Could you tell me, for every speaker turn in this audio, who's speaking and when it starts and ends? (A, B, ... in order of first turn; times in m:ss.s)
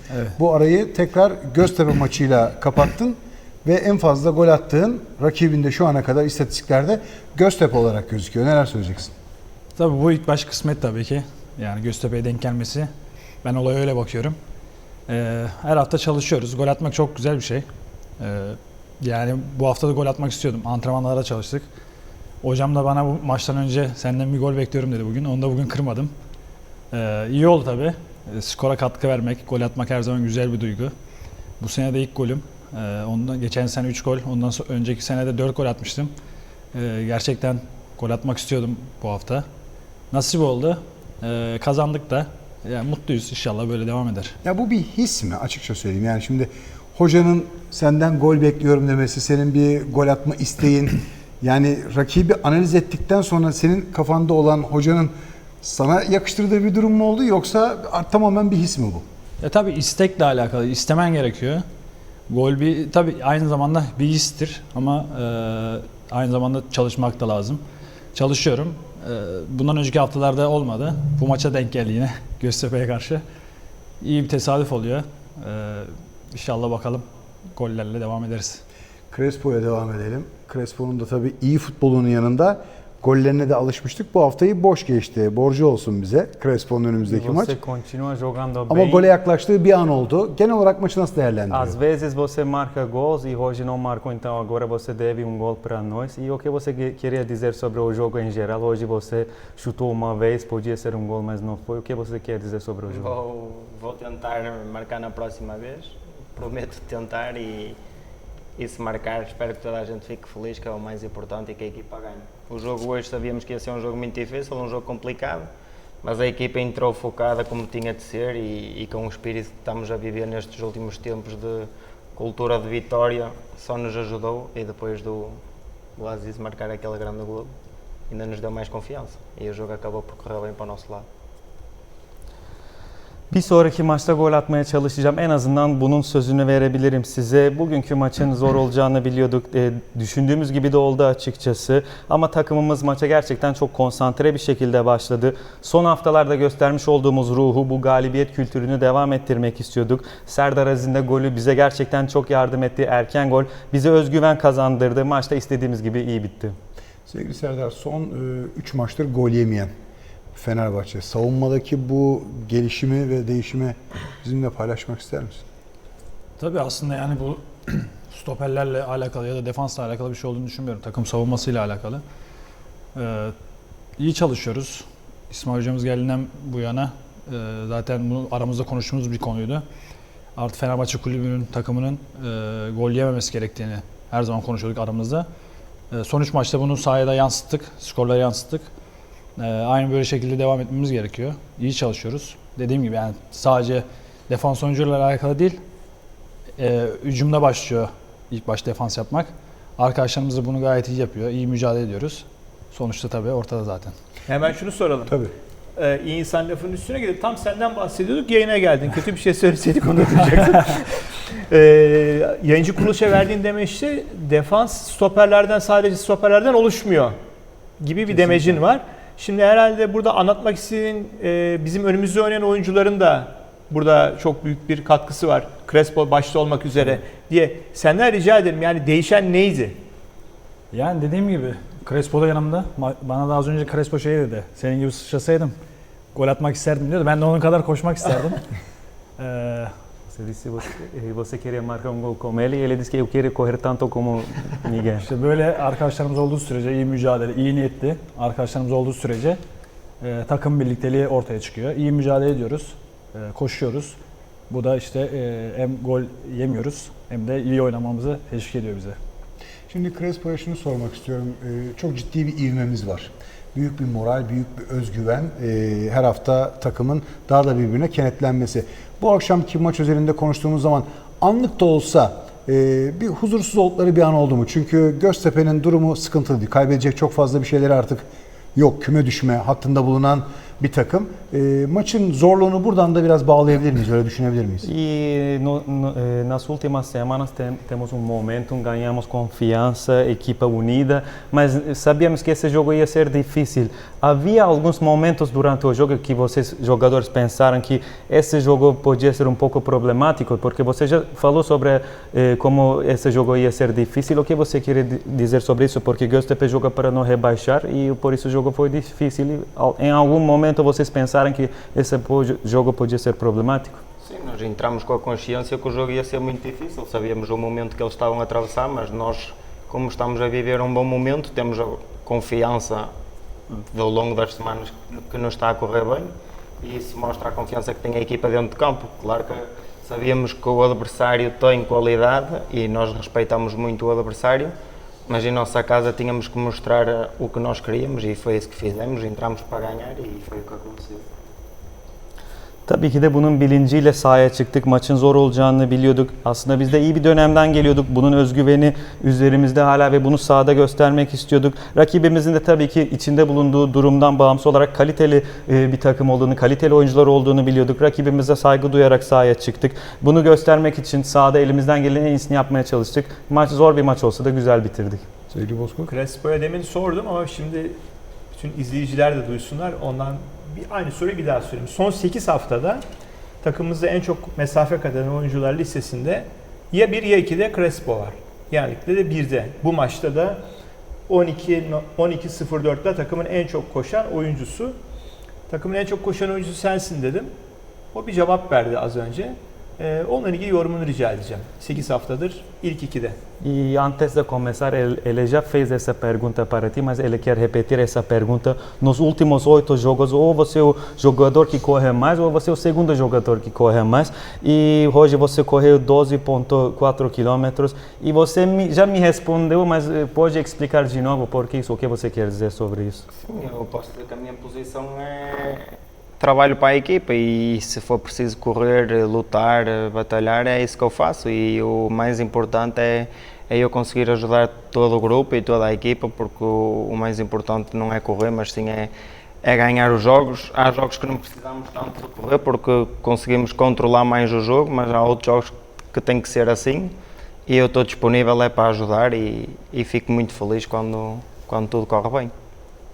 0:00.4-0:09.1 A
0:09.8-0:12.9 B
0:13.4-0:14.4 B
0:15.1-0:17.6 B
0:18.2-0:21.7 B
0:22.4-0:26.1 B
0:26.9-0:30.9 B
0:31.6-0:36.1 B
0:36.7-0:39.4 B
0:40.1-0:44.4 B
0:44.4-0:59.0 A
0:59.4-1:01.6 B
1:02.3-1:07.6 B
1:08.1-1:13.2 B
1:14.0-1:18.6 B
1:19.1-1:27.6 A
1:27.0-1:29.1 C
1:28.7-1:31.8 A
1:31.5-1:43.2 C
1:42.9-1:47.8 D
1:48.6-1:55.5 D
1:56.0-2:05.4 D
2:06.0-2:07.5 D
2:08.1-2:11.0 D
2:13.3-2:36.5 C
2:37.1-2:39.7 A
2:40.3-2:45.4 A
2:46.4-2:52.0 B
2:52.9-2:53.3 B
2:54.0-2:59.6 B
3:00.4-3:05.3 B
3:05.9-3:08.7 B
3:09.4-3:15.6 B
3:16.6-3:23.9 B
3:24.3-3:25.1 E
3:25.8-3:37.1 E
3:37.8-3:49.8 E
3:50.7-3:55.5 B
3:56.1-3:58.4 B
3:59.2-3:59.7 B
4:00.1-4:05.1 C
4:05.0-4:09.4 B
4:10.0-4:14.0 B
4:14.5-4:19.0 B
4:19.7-4:44.7 A
4:44.6-5:13.8 C
5:14.0-5:22.9 D
5:23.5-5:34.5 D
5:35.1-5:41.0 D
5:42.7-6:05.1 C
6:05.3-6:05.9 A
6:05.9-6:07.8 E
6:08.3-6:12.8 E
6:13.4-6:20.4 E
6:21.1-6:24.8 E
6:25.5-6:27.3 E
6:27.9-6:33.2 E
6:33.4-6:53.1 C
6:53.1-6:55.6 D
6:56.2-7:08.9 D
7:09.4-7:16.9 D
7:17.5-7:22.3 D